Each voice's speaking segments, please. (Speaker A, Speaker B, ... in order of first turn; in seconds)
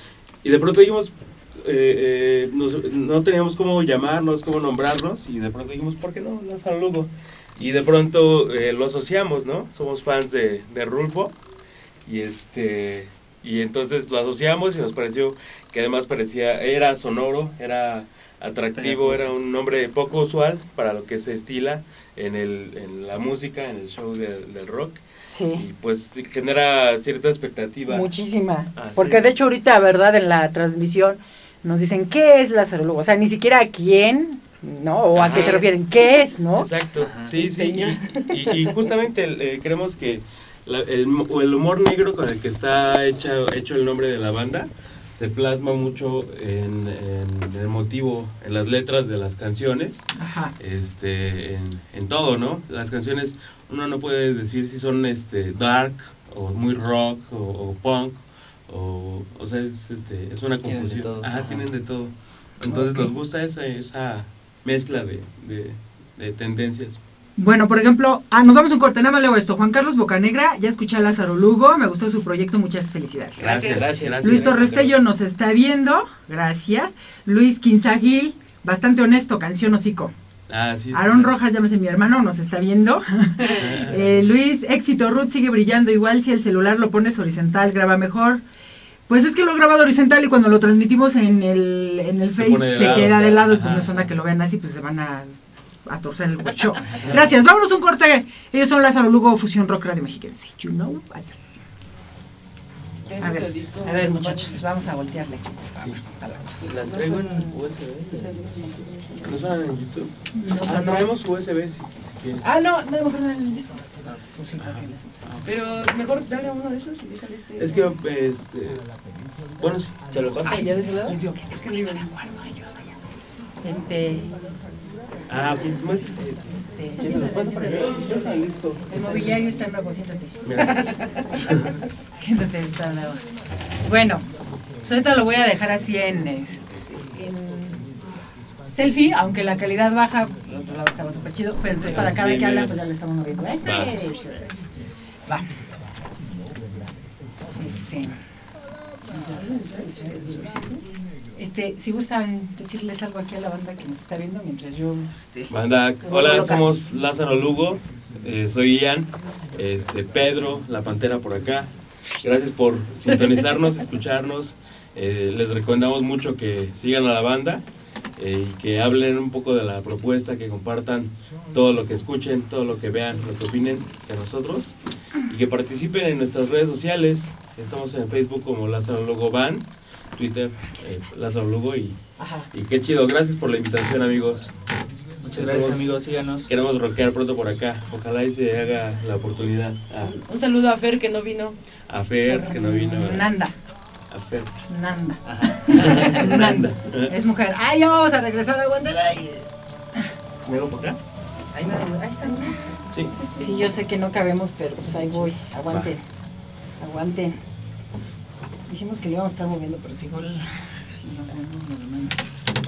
Speaker A: 0.4-11.3, 12.1-25.0, 25.5-28.1, 28.8-29.2, 35.2-35.7, 36.6-50.1, 50.6-67.0, 73.4-74.9, 80.5-81.4, 83.6-84.3, 92.4-93.9, 97.0-97.3, 109.2-112.4, 114.6-114.9, 117.6-118.9, 119.6-120.5, 125.3-128.8, 130.4-131.7, 141.8-142.8, 143.6-144.0, 155.5-167.6, 168.2-174.8, 175.3-182.0, 182.5-184.5, 185.3-185.9, 186.5-190.2, 191.9-193.3, 194.1-194.6, 195.9-197.1, 200.4-201.0
Speaker B: 18.8-19.3, 35.2-35.5, 37.0-37.4, 60.6-61.7, 73.5-74.9, 106.6-108.8, 120.1-121.2, 185.2-186.5, 195.2-196.4
Speaker C: 25.3-25.7, 27.9-36.7, 37.4-38.8, 50.2-50.5, 62.7-63.1, 67.4-73.5, 74.2-80.1, 80.9-88.4, 89.1-101.4, 103.2-106.7, 110.3-111.1, 112.4-115.3, 120.7-123.0, 123.6-124.6, 126.6-128.2, 128.9-130.7, 132.2-133.3, 133.8-134.3, 134.8-138.0, 138.7-144.7, 145.3-145.6, 147.6-148.2, 149.1-149.8, 151.3-156.7, 182.2-182.5, 192.3-193.5, 194.7-200.0, 201.6-202.6, 203.3-206.0, 206.8-207.4, 208.7-212.3
Speaker D: 35.2-35.8, 73.4-73.9, 103.0-104.6, 106.7-109.4, 115.4-117.9, 120.5-121.2, 127.0-128.6, 130.6-131.3, 149.1-150.8, 190.0-191.6, 201.6-203.8